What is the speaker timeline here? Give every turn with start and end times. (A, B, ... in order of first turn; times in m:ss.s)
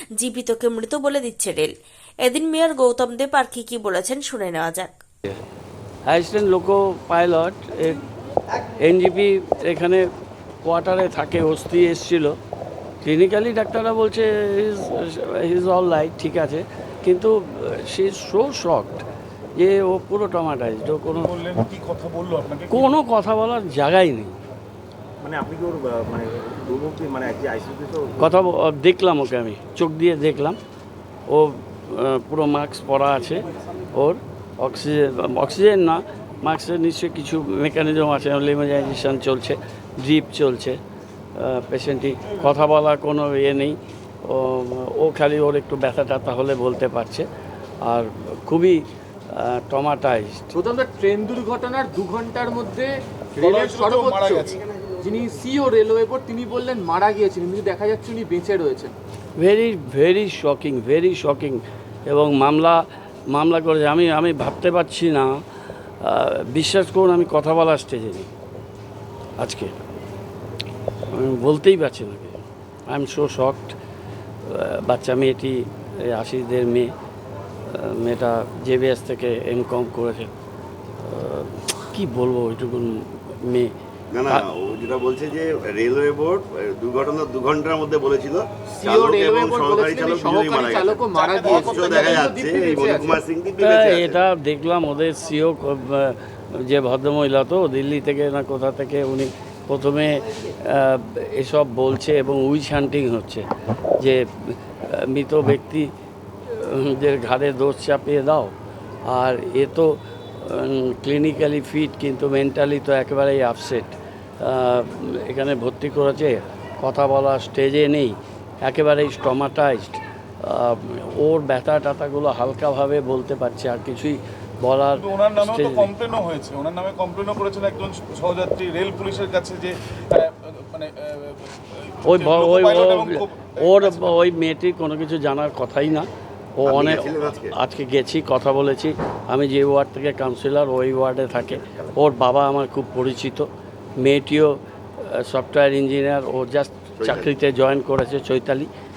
0:00.2-0:01.7 A
0:02.2-0:04.9 A
0:06.1-0:08.0 B
0:08.8-0:10.0 B
0:10.6-0:12.3 B
0:13.0-0:19.0 B
0:19.6-0:21.3 B
0:21.2-0:22.9 C
0:22.7-0:24.4 B
0:25.2-0:28.2 D
0:28.2-0:30.6 B
0:31.3-0:40.8 B
0:41.4-0:47.3 B
0:47.8-0:50.5 B
0:50.5-0:58.9 E
0:53.4-0:54.6 C
0:59.4-1:05.4 B
1:06.0-1:08.3 B
1:09.4-1:09.7 B
1:11.1-1:13.8 B
1:14.4-1:16.9 B
1:17.7-1:20.3 B
1:21.0-1:23.7 B
1:24.1-1:34.2 F
1:28.7-1:33.2 E
1:31.1-1:31.9 C
1:33.6-1:43.4 B
1:44.0-1:45.9 B
1:46.4-1:48.5 B
1:49.1-2:05.9 B
2:05.0-2:14.0 C
2:12.1-2:23.5 B
2:16.6-2:17.5 F
2:21.4-2:21.9 F
2:24.0-2:28.7 B
2:27.0-2:27.3 F